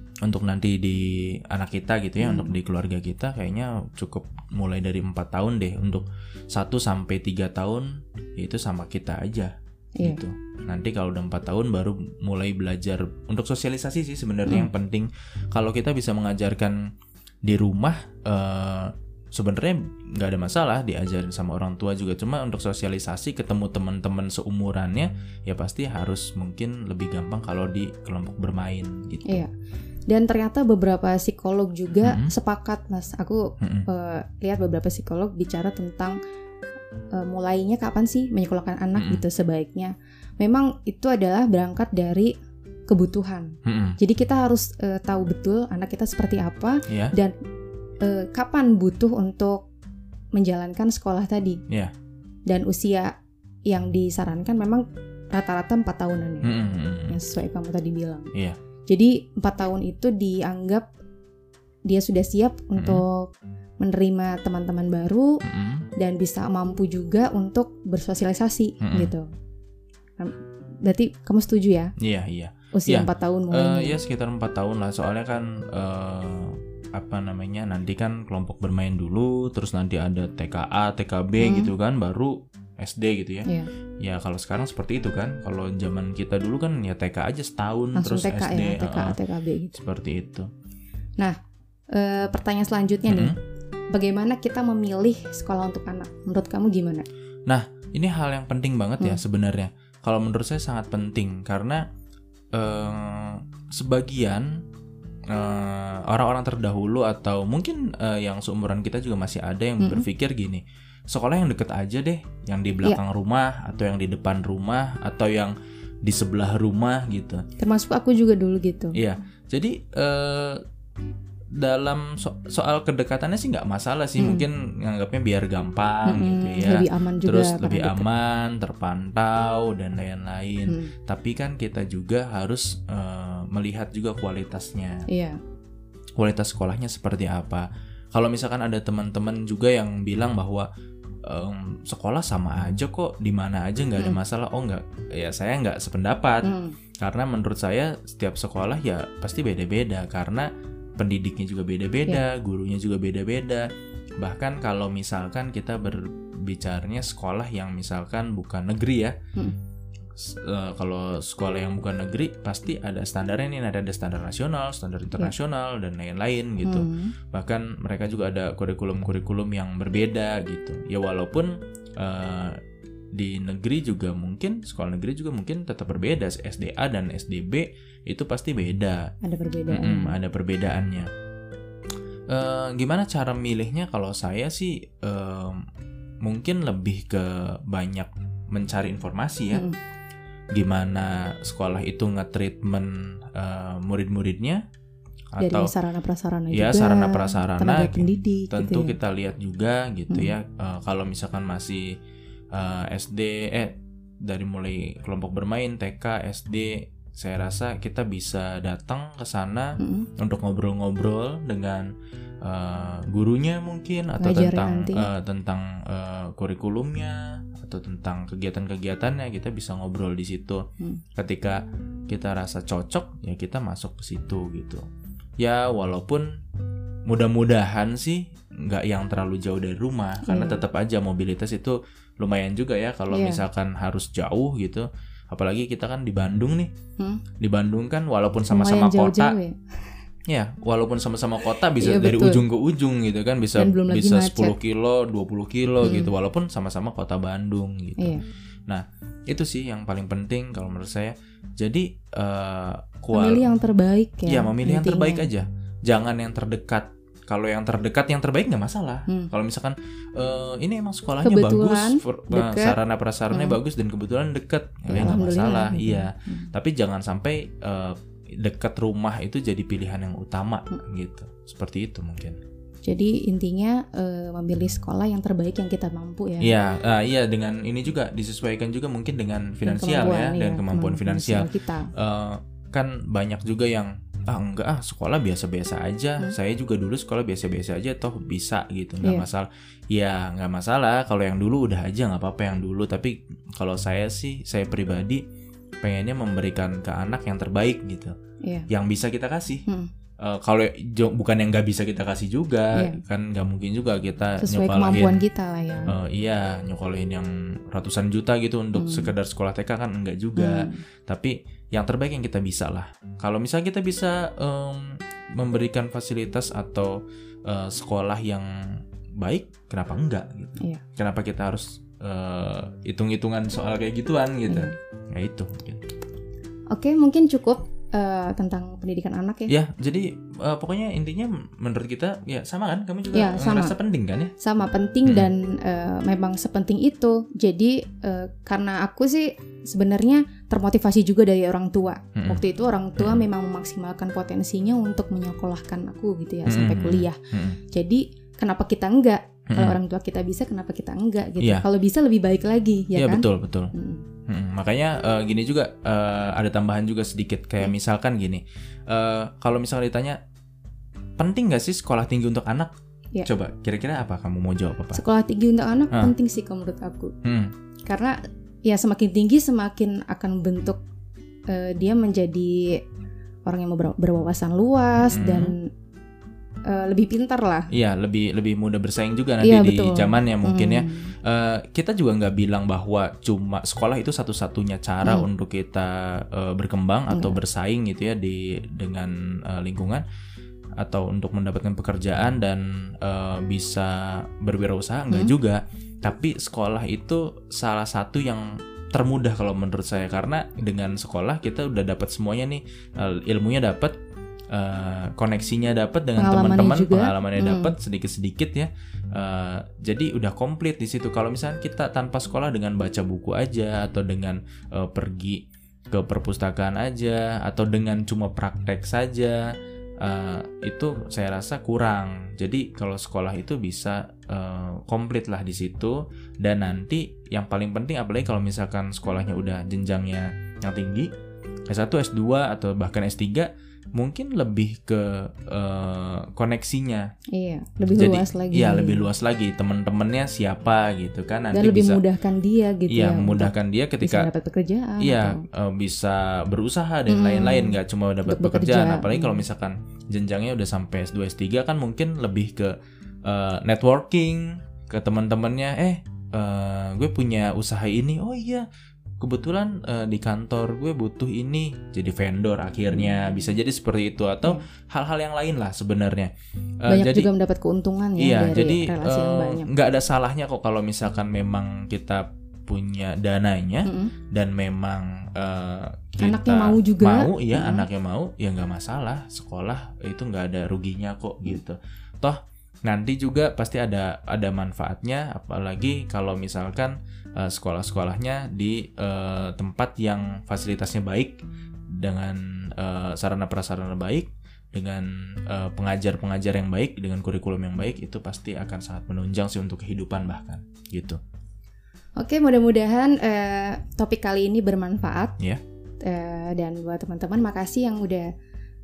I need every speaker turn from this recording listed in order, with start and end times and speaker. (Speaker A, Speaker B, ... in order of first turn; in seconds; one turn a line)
Speaker A: 0.2-16.9
Speaker B: 2.2-2.5
Speaker A: 17.4-29.4
Speaker B: 30.1-36.1
Speaker A: 32.0-32.3
Speaker A: 33.6-33.9
Speaker B: 37.1-42.3
Speaker A: 39.0-39.2
Speaker B: 42.9-47.3
Speaker A: 43.6-44.0
Speaker A: 46.9-47.1
Speaker B: 48.0-49.7
Speaker B: 50.3-51.6
Speaker B: 52.5-53.2
Speaker B: 53.7-56.5
Speaker A: 56.4-57.2
Speaker B: 57.1-58.3
Speaker B: 58.9-60.9
Speaker B: 61.9-65.4
Speaker A: 62.8-63.0
Speaker A: 65.4-65.8
Speaker B: 66.0-69.2
Speaker A: 68.8-69.1
Speaker B: 70.2-71.9
Speaker A: 72.0-83.5
Speaker B: 72.7-74.0
Speaker B: 81.4-81.7
Speaker A: 84.0-89.2
Speaker B: 87.9-89.7
Speaker A: 89.7-90.5
Speaker B: 91.9-93.3
Speaker A: 93.1-93.3
Speaker B: 93.9-97.0
Speaker A: 97.5-101.8
Speaker A: 102.5-104.6
Speaker A: 105.3-117.4
Speaker B: 109.8-110.0
Speaker B: 117.6-119.0
Speaker A: 118.9-120.6
Speaker A: 121.5-135.1
Speaker B: 124.2-124.5
Speaker B: 126.0-128.1
Speaker B: 130.7-130.9
Speaker B: 135.1-135.4
Speaker A: 136.2-140.7
Speaker A: 141.2-146.5
Speaker B: 146.4-146.7
Speaker A: 147.0-153.7
Speaker A: 154.2-159.2
Speaker A: 160.2-172.6
Speaker B: 166.6-167.1
Speaker A: 173.1-179.1
Speaker B: 179.2-180.1
Speaker A: 179.7-181.1
Speaker A: 182.3-185.7
Speaker A: 186.2-189.6
Speaker B: 189.5-189.8
Speaker A: 190.5-194.6
Speaker A: 195.3-195.7
Speaker B: 195.4-198.9
Speaker A: 196.5-201.9
Speaker A: 202.5-211.9
Speaker B: 209.8-210.1
Speaker A: 212.4-220.6
Speaker B: 214.2-215.1
Speaker A: 221.2-224.8
Speaker A: 225.4-226.3
Speaker A: 227.1-236.7
Speaker B: 230.2-230.6
Speaker B: 233.1-233.4
Speaker A: 237.4-239.3
Speaker B: 238.5-240.0
Speaker A: 240.3-253.4
Speaker B: 241.7-242.4
Speaker B: 243.6-244.6
Speaker B: 245.8-246.1
Speaker B: 248.0-248.2
Speaker B: 253.1-255.3
Speaker A: 254.3-272.4
Speaker B: 261.2-262.8
Speaker B: 263.3-263.6
Speaker B: 264.9-266.5
Speaker B: 272.8-276.5
Speaker A: 276.4-295.2
Speaker B: 279.6-281.9
Speaker B: 289.0-289.3
Speaker A: 295.8-298.1
Speaker A: 298.7-299.6
Speaker A: 300.2-305.2
Speaker B: 302.7-303.0
Speaker B: 304.4-305.9
Speaker A: 305.9-325.8
Speaker B: 308.7-309.1
Speaker B: 310.4-310.8
Speaker B: 324.5-324.7
Speaker B: 326.7-329.5
Speaker A: 329.5-334.3
Speaker B: 333.1-333.8
Speaker B: 334.4-347.2
Speaker A: 342.1-342.4
Speaker A: 343.0-343.3
Speaker A: 346.4-347.6
Speaker B: 347.7-354.0
Speaker A: 349.5-349.8
Speaker A: 352.9-353.7
Speaker A: 354.3-360.2
Speaker A: 361.2-362.7
Speaker A: 363.2-365.0
Speaker B: 364.9-367.1
Speaker A: 367.2-367.5
Speaker B: 367.9-368.1
Speaker B: 368.6-370.8
Speaker B: 371.5-372.7
Speaker B: 373.4-375.7
Speaker A: 375.1-375.5
Speaker B: 376.7-377.7
Speaker A: 377.7-390.0
Speaker B: 379.4-381.1
Speaker B: 387.1-387.4
Speaker A: 390.8-403.9
Speaker A: 404.5-419.4
Speaker B: 406.1-407.7
Speaker A: 420.0-431.1
Speaker A: 431.7-437.1
Speaker B: 437.3-439.1
Speaker A: 437.9-442.0
Speaker B: 441.5-445.4
Speaker A: 442.9-444.3
Speaker A: 445.0-458.6
Speaker B: 447.1-449.4
Speaker A: 459.2-467.3
Speaker B: 462.9-463.2
Speaker B: 466.9-469.7
Speaker A: 468.2-491.4
Speaker B: 473.8-474.1
Speaker B: 476.2-477.9
Speaker A: 491.9-501.2
Speaker B: 502.2-505.4
Speaker B: 506.0-508.3